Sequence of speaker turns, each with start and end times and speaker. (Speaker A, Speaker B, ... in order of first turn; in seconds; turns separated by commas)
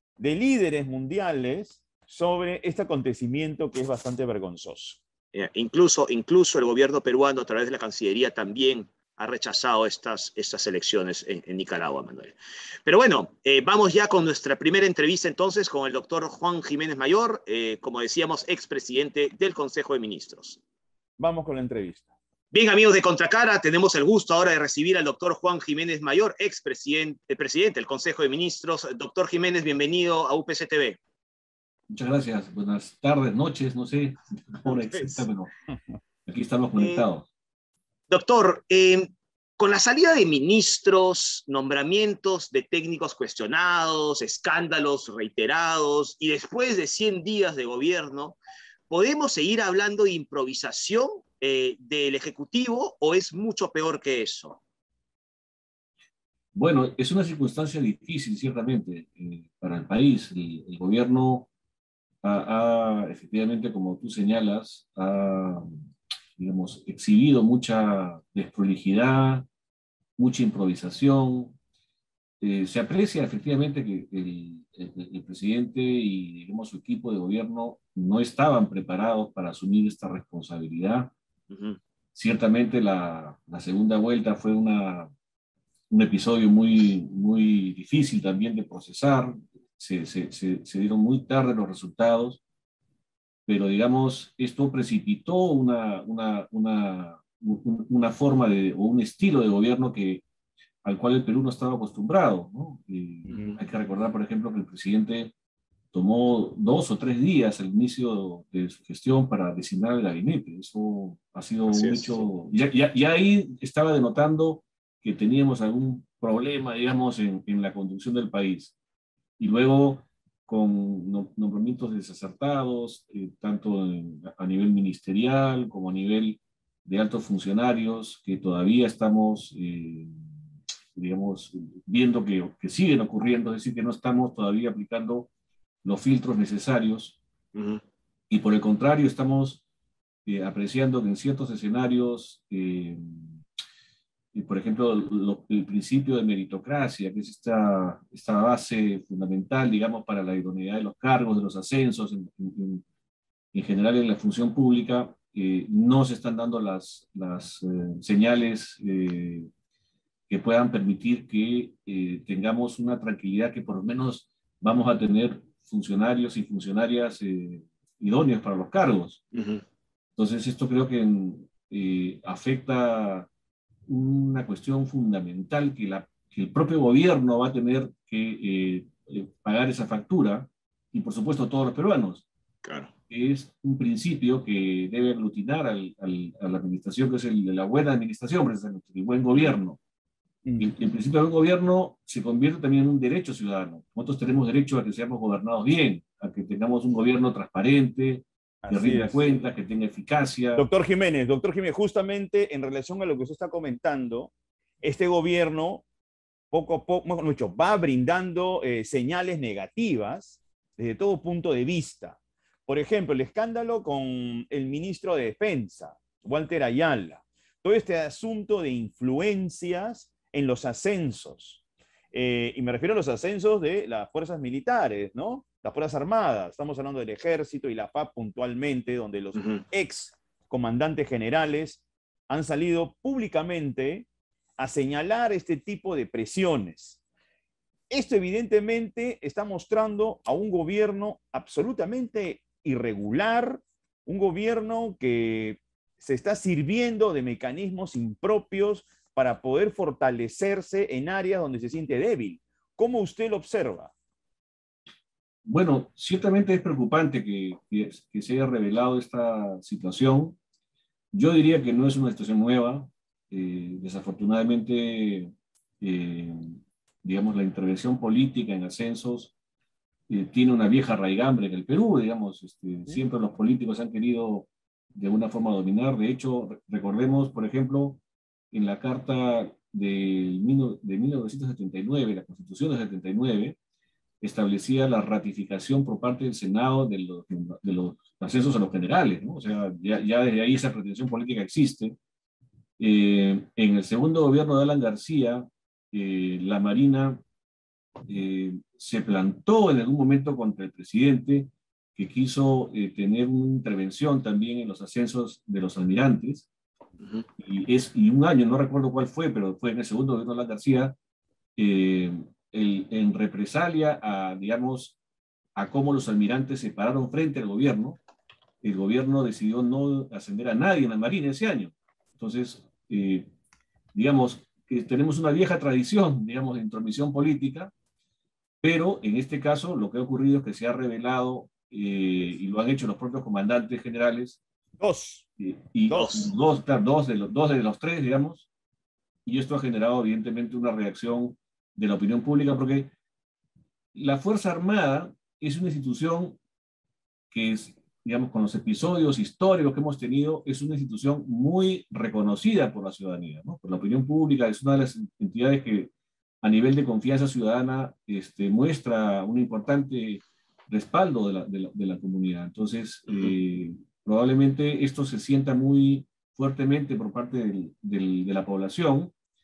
Speaker A: 0.2-5.0, Speaker B: 5.3-20.6, Speaker A: 21.2-22.1, Speaker B: 22.5-31.0, Speaker C: 31.9-35.5, Speaker A: 34.7-36.0, Speaker C: 36.2-37.2, Speaker B: 36.8-37.0, Speaker B: 38.1-48.4, Speaker B: 48.9-54.6, Speaker C: 56.5-61.5, Speaker C: 62.2-65.7, Speaker C: 66.4-69.5, Speaker C: 70.2-71.5, Speaker C: 72.4-81.1, Speaker B: 81.5-81.8, Speaker C: 82.1-85.1, Speaker C: 85.9-92.4, Speaker C: 93.5-100.2, Speaker C: 100.8-105.3, Speaker B: 103.3-103.6, Speaker C: 105.9-118.7, Speaker B: 111.7-112.2, Speaker C: 119.4-130.1, Speaker C: 130.9-135.3, Speaker C: 135.8-137.2, Speaker B: 137.5-137.8, Speaker C: 138.3-139.6, Speaker C: 140.2-143.3, Speaker C: 144.3-152.8, Speaker C: 153.5-159.5, Speaker C: 160.3-169.2, Speaker B: 169.3-169.6, Speaker C: 170.2-173.3, Speaker C: 173.9-182.2, Speaker B: 182.6-182.9, Speaker C: 183.1-189.8, Speaker A: 190.4-190.7, Speaker C: 190.6-200.7, Speaker A: 198.6-199.2, Speaker A: 200.6-205.8, Speaker A: 206.5-221.6, Speaker A: 222.1-234.1, Speaker B: 229.3-229.6, Speaker A: 234.6-237.0, Speaker A: 237.9-253.9, Speaker C: 255.4-260.4, Speaker C: 261.1-269.3, Speaker C: 270.1-278.0, Speaker C: 278.5-283.6, Speaker C: 284.2-292.0, Speaker C: 292.8-297.2, Speaker C: 298.1-306.5, Speaker C: 307.4-310.9, Speaker C: 311.6-315.0, Speaker C: 315.6-318.0, Speaker C: 318.6-323.3, Speaker C: 323.9-327.7, Speaker C: 328.6-334.4, Speaker A: 334.8-335.2, Speaker C: 335.4-338.5, Speaker B: 335.9-336.3, Speaker C: 339.2-342.9, Speaker C: 343.9-346.4, Speaker C: 347.3-369.1, Speaker B: 363.1-363.4